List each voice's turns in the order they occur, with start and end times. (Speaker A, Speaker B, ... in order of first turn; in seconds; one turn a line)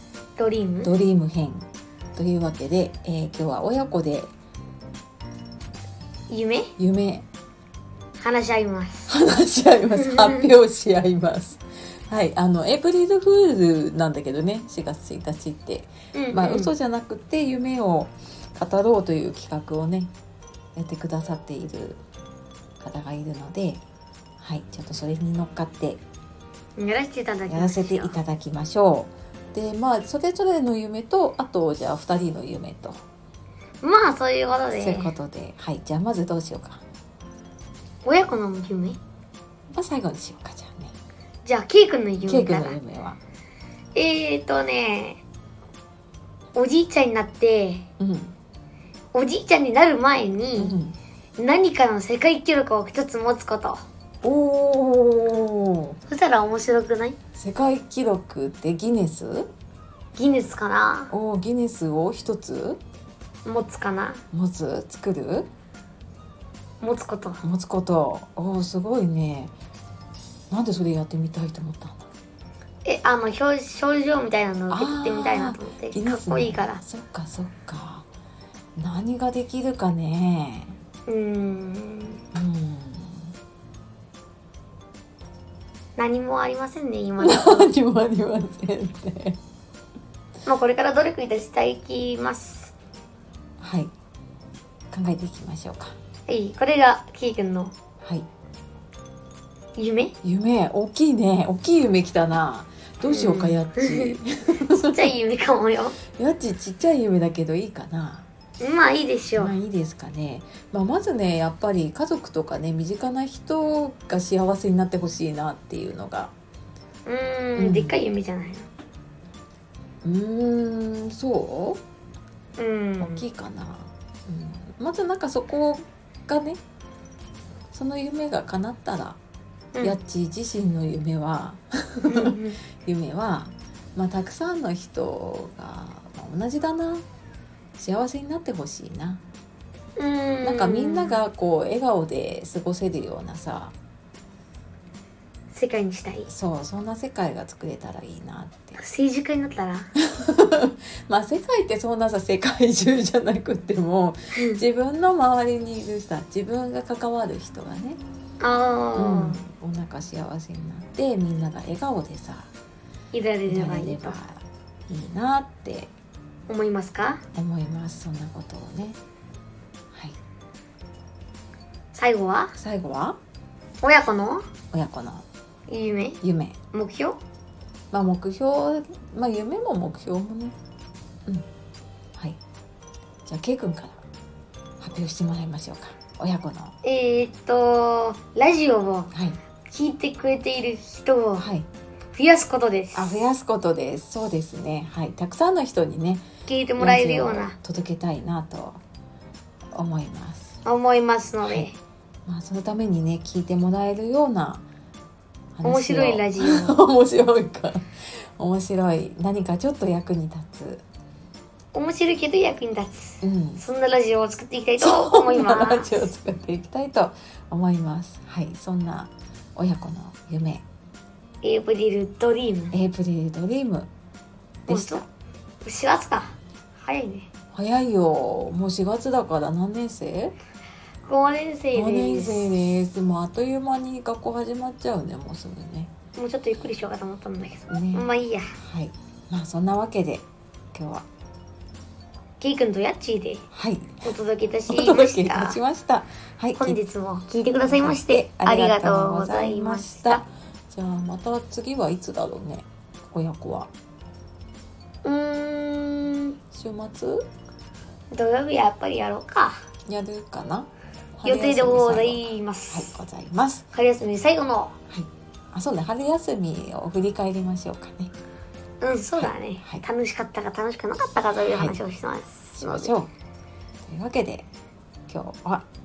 Speaker A: 0.4-0.9
Speaker B: 0.8-4.3
Speaker A: 6.3-6.7
Speaker B: 6.8-7.3
Speaker A: 8.2-9.1
Speaker B: 9.1-20.1
Speaker A: 9.9-10.5
Speaker A: 16.1-16.7
Speaker B: 20.7-22.0
Speaker B: 22.8-23.8
Speaker B: 24.4-26.0
Speaker A: 26.8-28.1
Speaker B: 27.5-33.0
Speaker A: 33.8-35.1
Speaker B: 34.7-36.8
Speaker A: 38.0-39.0
Speaker B: 39.7-40.9
Speaker A: 41.4-42.8
Speaker B: 42.2-43.2
Speaker A: 43.9-45.2
Speaker A: 46.5-47.9
Speaker B: 48.0-48.4
Speaker A: 49.1-50.8
Speaker B: 50.6-51.0
Speaker A: 51.4-53.8
Speaker B: 54.2-56.0
Speaker A: 56.1-57.2
Speaker B: 57.3-59.5
Speaker A: 60.1-61.1
Speaker B: 61.1-62.8
Speaker A: 63.4-64.2
Speaker B: 64.3-65.5
Speaker A: 66.8-67.4
Speaker B: 67.4-69.5
Speaker B: 70.5-72.1
Speaker A: 72.8-76.8
Speaker B: 74.7-78.0
Speaker B: 78.8-80.8
Speaker A: 81.1-82.2
Speaker B: 82.3-83.3
Speaker A: 86.0-87.7
Speaker B: 87.2-89.4
Speaker A: 90.4-92.7
Speaker B: 93.6-93.9
Speaker B: 94.9-96.0
Speaker A: 96.3-97.7
Speaker A: 99.8-100.1
Speaker B: 100.2-105.1
Speaker A: 103.0-104.2
Speaker A: 104.7-106.0
Speaker B: 106.1-108.3
Speaker A: 108.6-109.5
Speaker B: 109.3-116.3
Speaker A: 117.0-118.7
Speaker B: 117.6-118.0
Speaker B: 120.0-121.8
Speaker A: 122.6-123.2
Speaker B: 123.0-126.6
Speaker B: 127.7-129.2
Speaker B: 129.8-137.1
Speaker A: 132.0-132.6
Speaker B: 137.8-139.2
Speaker A: 140.0-141.2
Speaker B: 140.4-143.7
Speaker A: 145.5-146.3
Speaker B: 146.3-148.8
Speaker A: 148.8-149.9
Speaker B: 150.0-158.0
Speaker A: 154.3-154.6
Speaker A: 158.4-159.4
Speaker B: 158.9-162.5
Speaker A: 163.1-164.2
Speaker B: 163.5-165.9
Speaker A: 166.5-167.2
Speaker B: 167.3-169.0
Speaker A: 171.9-172.5
Speaker B: 172.5-173.2
Speaker A: 173.8-174.4
Speaker B: 174.7-175.2
Speaker A: 175.7-176.2
Speaker B: 176.2-176.6
Speaker A: 176.7-177.2
Speaker B: 177.9-180.5
Speaker B: 183.2-184.0
Speaker B: 184.8-186.7
Speaker A: 186.8-189.1
Speaker B: 189.1-189.4
Speaker A: 189.7-191.4
Speaker B: 191.4-191.7
Speaker A: 192.1-193.3
Speaker B: 192.9-196.3
Speaker A: 196.5-197.6
Speaker B: 196.8-198.8
Speaker B: 199.7-200.6
Speaker A: 200.6-201.8
Speaker B: 201.4-201.7
Speaker B: 202.2-204.6
Speaker B: 205.6-210.8
Speaker A: 205.6-206.8
Speaker A: 211.7-216.1
Speaker B: 213.2-213.6
Speaker B: 214.8-220.6
Speaker A: 221.4-222.8
Speaker B: 222.7-223.9
Speaker B: 224.7-225.0
Speaker A: 224.7-225.1
Speaker A: 225.6-227.3
Speaker B: 227.5-230.3
Speaker A: 231.1-232.5
Speaker B: 231.7-235.9
Speaker A: 236.2-238.5
Speaker B: 237.7-241.1
Speaker A: 242.4-243.4
Speaker B: 243.5-244.1
Speaker A: 244.0-245.6
Speaker B: 244.7-246.8
Speaker A: 246.6-250.2
Speaker B: 247.6-253.7
Speaker A: 255.0-256.3
Speaker B: 256.5-257.3
Speaker A: 258.1-259.6
Speaker B: 259.9-263.6
Speaker A: 261.2-263.0
Speaker A: 263.7-264.7
Speaker B: 264.9-268.1
Speaker A: 268.8-272.9
Speaker B: 269.2-269.8
Speaker B: 271.5-271.8
Speaker B: 272.6-273.1
Speaker B: 273.8-274.5
Speaker B: 275.1-275.6